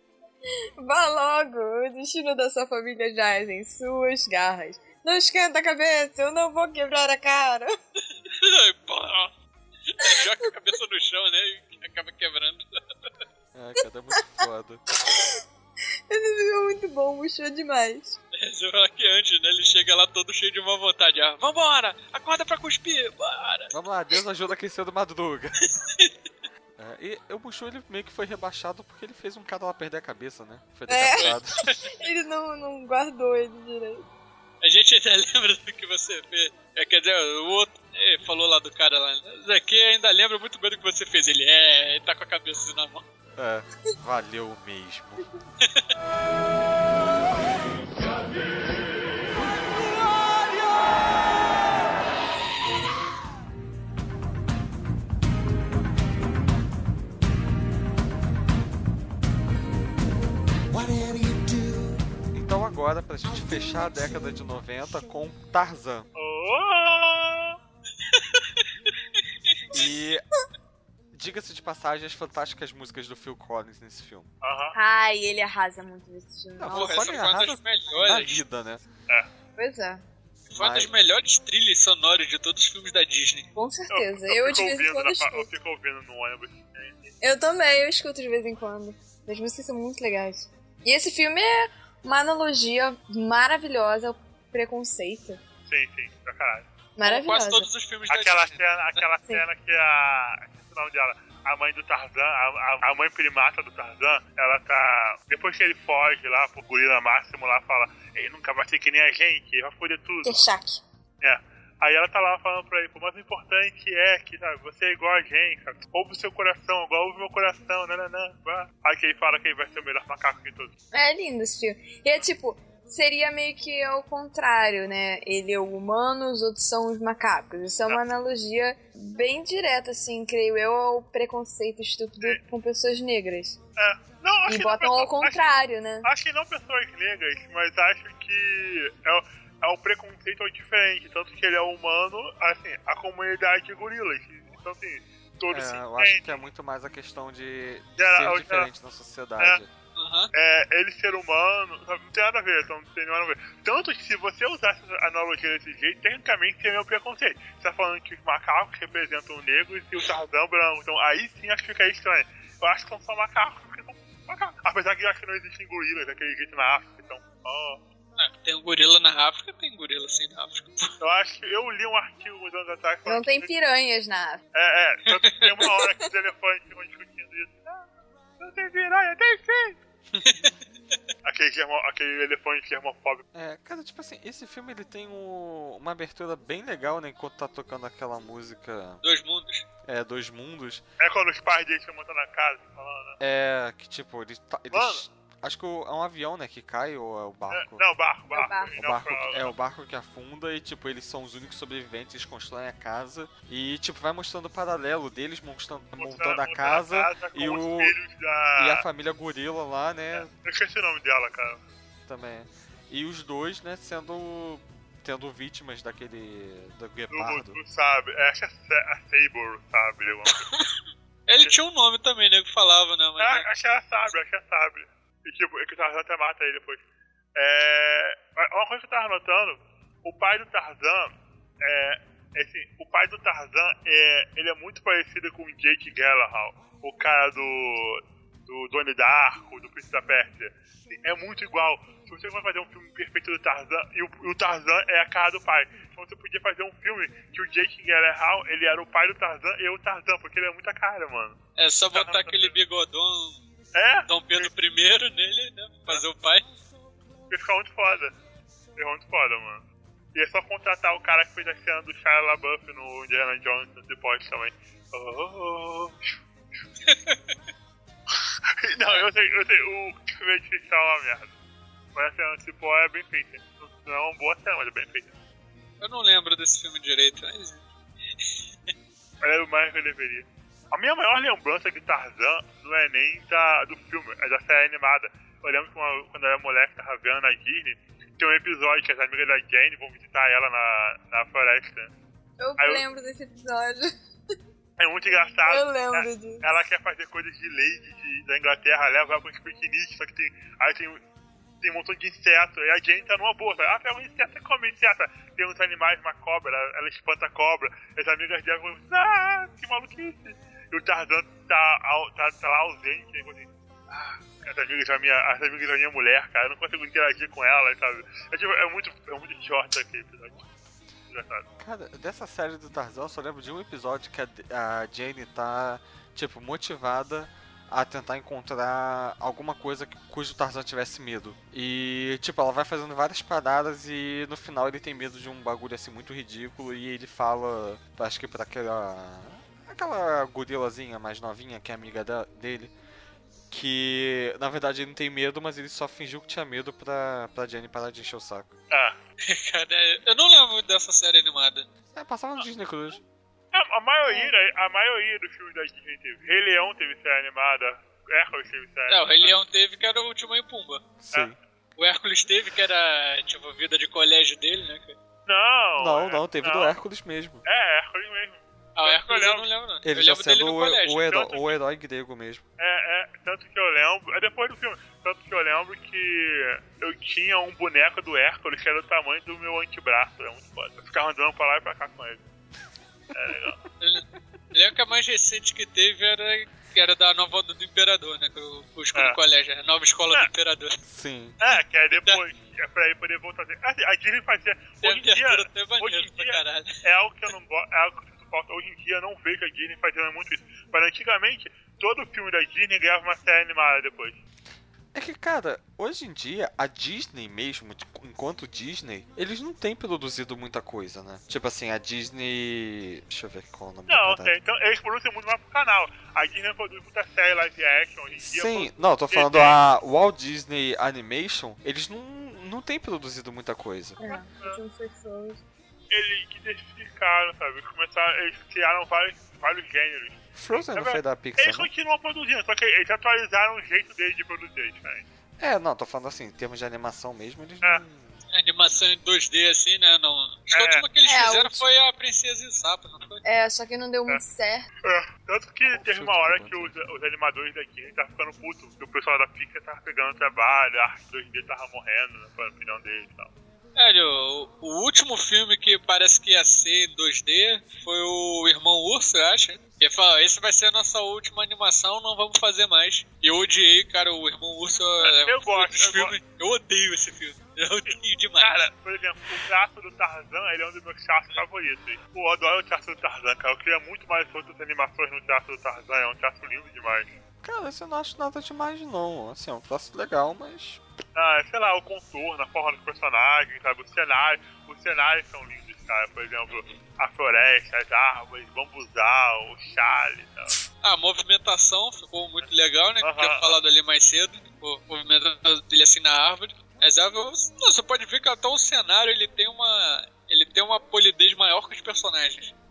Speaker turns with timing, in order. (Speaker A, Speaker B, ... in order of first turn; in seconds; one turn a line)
Speaker A: 0.8-7.7
Speaker B: 8.3-9.3
Speaker B: 9.9-12.6
Speaker C: 13.6-14.8
Speaker A: 16.1-18.2
Speaker B: 18.3-23.7
Speaker C: 23.7-25.6
Speaker B: 25.8-26.1
Speaker C: 26.8-31.6
Speaker A: 30.9-31.3
Speaker B: 31.2-31.9
Speaker A: 31.9-34.1
Speaker B: 34.6-43.0
Speaker C: 43.4-45.2
Speaker B: 45.6-45.9
Speaker C: 62.3-66.1
Speaker D: 66.2-67.6
Speaker B: 68.1-68.7
Speaker C: 69.7-70.2
Speaker C: 71.1-74.3
Speaker D: 74.4-74.8
Speaker A: 74.7-77.2
Speaker C: 76.6-78.8
Speaker B: 76.7-78.4
Speaker A: 79.6-80.0
Speaker B: 80.5-83.5
Speaker C: 80.6-80.9
Speaker A: 83.5-85.5
Speaker D: 83.9-87.1
Speaker A: 87.2-95.4
Speaker D: 95.7-96.7
Speaker A: 97.0-97.7
Speaker B: 97.0-99.0
Speaker D: 98.1-110.4
Speaker A: 110.2-110.8
Speaker D: 111.2-120.7
Speaker A: 120.9-133.6
Speaker D: 133.8-146.4
Speaker A: 134.5-136.1
Speaker C: 145.5-149.7
Speaker D: 148.0-148.7
Speaker B: 150.0-150.3
Speaker D: 150.3-167.8
Speaker B: 168.2-170.9
Speaker D: 171.0-173.5
Speaker A: 173.1-174.4
Speaker D: 174.5-177.9
Speaker B: 175.2-175.7
Speaker D: 178.4-179.8
Speaker B: 180.2-180.5
Speaker D: 181.2-183.2
Speaker C: 183.3-189.0
Speaker B: 189.0-189.7
Speaker C: 189.9-190.8
Speaker D: 191.0-193.2
Speaker C: 193.2-197.8
Speaker D: 194.7-195.1
Speaker D: 197.5-199.5
Speaker A: 198.3-198.7
Speaker C: 198.8-207.9
Speaker D: 206.0-208.8
Speaker C: 208.6-210.3
Speaker D: 210.1-211.6
Speaker C: 212.1-217.6
Speaker D: 217.1-220.5
Speaker B: 221.3-223.5
Speaker D: 223.2-226.8
Speaker D: 227.4-251.4
Speaker B: 251.6-253.4
Speaker D: 251.9-252.6
Speaker D: 253.8-254.5
Speaker B: 254.1-256.5
Speaker D: 257.3-258.1
Speaker D: 258.8-266.2
Speaker B: 266.9-267.3
Speaker D: 268.1-271.3
Speaker D: 271.9-275.1
Speaker B: 275.8-277.7
Speaker D: 279.2-291.9
Speaker A: 292.4-293.9
Speaker D: 292.6-292.8
Speaker D: 294.8-301.0
Speaker A: 295.4-296.4
Speaker D: 301.6-320.4
Speaker D: 321.1-321.5
Speaker C: 321.6-342.7
Speaker C: 343.5-348.5
Speaker D: 348.7-349.0
Speaker B: 349.2-351.7
Speaker C: 351.9-353.0
Speaker D: 353.5-359.4
Speaker B: 358.9-360.8
Speaker C: 361.0-361.4
Speaker B: 361.8-365.0
Speaker D: 365.3-366.8
Speaker C: 365.8-367.4
Speaker D: 367.5-369.5
Speaker B: 368.8-371.5
Speaker C: 369.8-372.4
Speaker D: 372.6-382.2
Speaker D: 383.1-383.6
Speaker B: 383.8-390.8
Speaker C: 390.9-391.4
Speaker D: 391.4-404.2
Speaker B: 391.9-392.2
Speaker B: 394.8-396.8
Speaker C: 404.9-414.4
Speaker D: 413.9-419.6
Speaker C: 418.2-424.0
Speaker A: 424.0-425.4
Speaker D: 424.1-424.6
Speaker D: 425.9-435.1
Speaker C: 430.4-431.7
Speaker C: 435.4-438.2
Speaker B: 438.3-443.2
Speaker D: 440.5-440.9
Speaker A: 441.1-441.6
Speaker A: 443.2-444.7
Speaker D: 444.8-453.3
Speaker C: 445.7-446.8
Speaker B: 453.8-468.7
Speaker D: 465.0-466.2
Speaker D: 467.9-477.1
Speaker C: 477.4-480.8
Speaker D: 481.1-490.6
Speaker B: 486.5-486.8
Speaker B: 490.8-502.5
Speaker D: 493.0-493.6